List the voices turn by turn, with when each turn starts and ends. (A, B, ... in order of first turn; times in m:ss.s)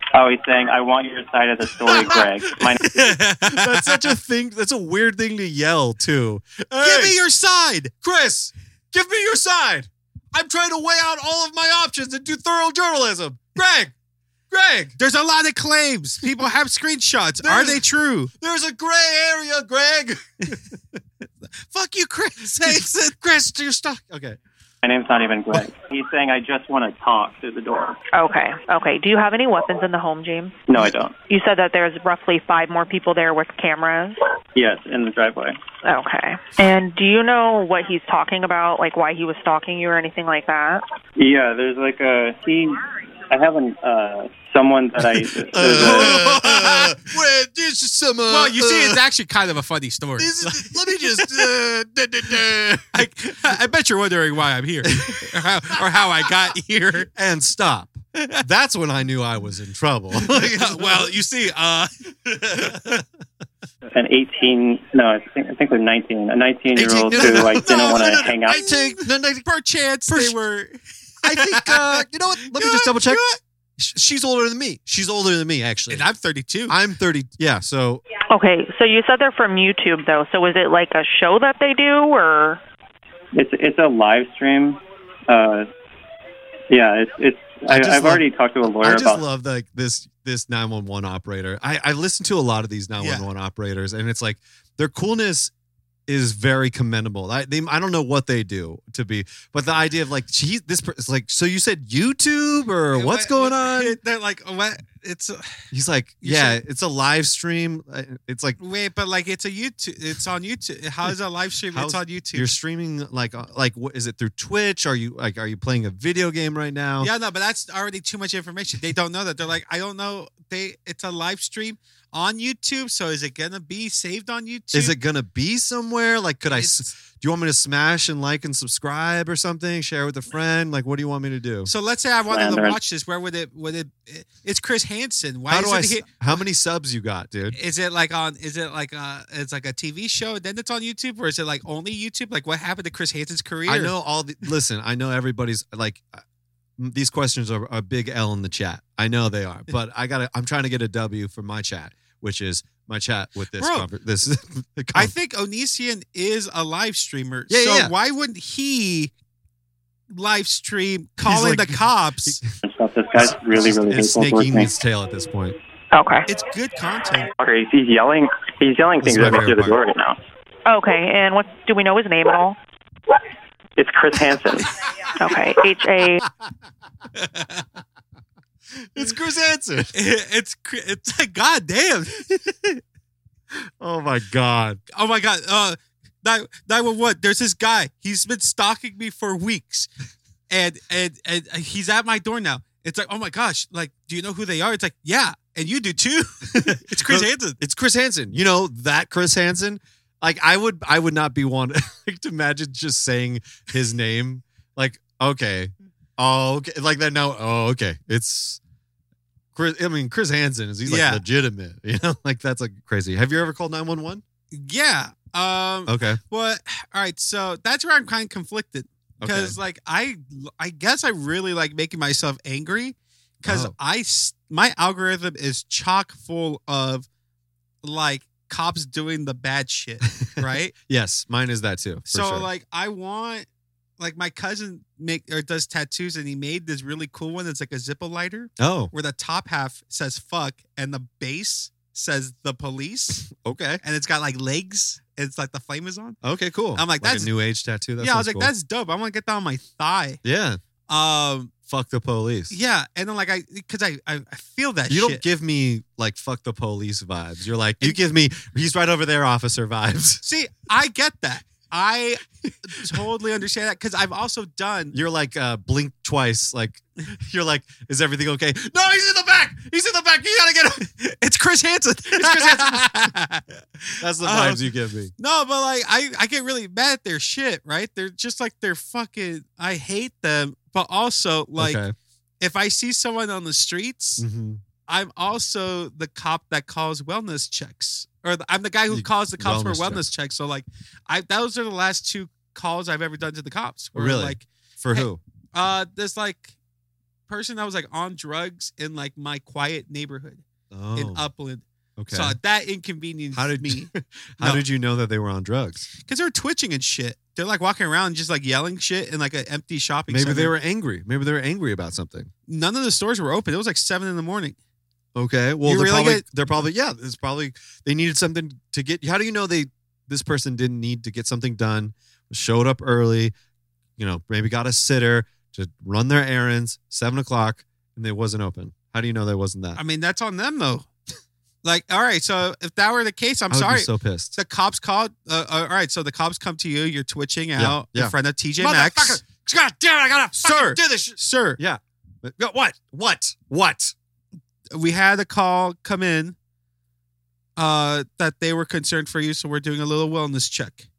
0:00.1-0:03.0 A
0:01.8-0:02.4 B
0:02.8-0:04.2 C
0:03.4-0:07.2 B
0:06.8-0:07.9 C
0:08.0-0:13.9 B
0:14.5-0:15.0 B
0:15.0-0:18.3 C
0:17.4-0:17.8 B
0:18.4-0:21.0 B
0:21.6-0:23.1 C
0:22.4-0:24.4 B
0:24.8-0:28.0 A
0:28.1-0:30.6 D
0:30.7-0:31.2 A
0:31.2-0:34.2 D
0:34.6-0:35.6 A
0:35.8-0:40.8 D
0:41.2-0:46.2 A
0:45.5-0:49.0 B
0:45.6-0:47.2 C
0:48.3-0:51.5 C
0:50.2-0:53.1 B
0:52.9-0:57.1 C
0:54.9-0:55.3 B
0:57.1-1:01.1 B
1:00.2-1:02.9 C
1:02.5-1:03.0 B
1:03.9-1:08.6 A
1:06.7-1:09.4 B
1:07.1-1:13.4 C
1:10.1-1:10.4 B
1:11.2-1:13.2 B
1:13.8-1:16.1 B
1:15.9-1:16.8 C
1:16.7-1:18.0 B
1:18.3-1:22.6 D
1:23.3-1:25.7 A
1:26.7-1:29.2 A
1:27.7-1:28.2 B
1:28.8-1:35.5 B
1:33.0-1:33.3 C
1:36.1-1:44.0 B
1:42.9-1:45.6 C
1:45.7-1:48.6 B
1:46.2-1:46.6 C
1:48.6-1:52.5 C
1:51.7-1:57.1 B
1:57.0-2:05.0 C
2:04.7-2:11.7 B
2:06.5-2:06.9 C
2:11.7-2:16.4 C
2:12.3-2:12.8 A
2:15.5-2:17.6 B
2:17.5-2:23.9 C
2:23.7-2:26.2 B
2:26.8-2:35.1 B
2:33.6-2:33.9 C
2:34.9-2:39.1 C
2:37.5-2:37.9 B
2:40.1-2:42.4 C
2:41.2-2:42.5 B
2:42.6-2:44.7 A
2:43.2-2:45.6 B
2:45.9-2:46.3 D
2:46.3-2:47.3 C
2:47.4-2:50.2 A
2:49.0-2:49.8 B
2:50.7-2:52.6 D
2:53.8-2:54.8 A
2:55.2-2:56.2 D
2:57.2-2:57.7 C
2:58.8-2:59.9 B
2:59.9-3:02.8 C
3:03.8-3:04.8 B
3:04.9-3:09.9 C
3:10.5-3:17.6 C
3:16.5-3:28.6 B
3:29.6-3:34.2 B
3:30.9-3:31.2 C
3:34.5-3:47.1 C
3:35.9-3:36.2 B
3:39.2-3:39.6 B
3:43.4-3:43.8 B
3:47.8-3:50.7 C
3:50.2-3:52.5 B
3:52.1-3:53.5 C
3:54.0-4:03.3 C
3:58.6-3:58.9 B
4:03.2-4:03.8 B
4:03.8-4:06.2 C
4:06.2-4:08.5 B
4:06.8-4:07.3 C
4:08.0-4:10.2 C
4:10.2-4:10.6 B
4:10.9-4:11.5 C
4:11.7-4:12.6 B
4:12.5-4:15.2 C
4:14.9-4:20.2 B
4:20.2-4:25.0 C
4:24.9-4:30.9 B
4:30.9-4:41.8 C
4:32.1-4:33.1 B
4:34.0-4:35.1 B
4:41.6-4:42.0 B
4:42.4-4:44.2 C
4:44.2-4:44.6 B
4:44.9-4:56.6 C
4:48.9-4:50.0 B
4:54.0-4:55.2 B
4:57.3-5:04.6 C
5:00.7-5:01.3 B
5:02.0-5:02.4 B
5:03.3-5:05.9 B
5:06.0-5:10.5 C
5:10.1-5:12.3 B
5:12.5-5:14.6 C
5:15.2-5:23.3 B
5:15.6-5:16.3 C
5:24.0-5:29.8 B
5:29.8-5:30.9 C
5:31.6-5:39.2 C
5:33.5-5:34.4 B
5:37.6-5:43.9 B
5:40.4-5:41.6 C
5:44.7-5:46.4 C
5:47.6-5:50.9 C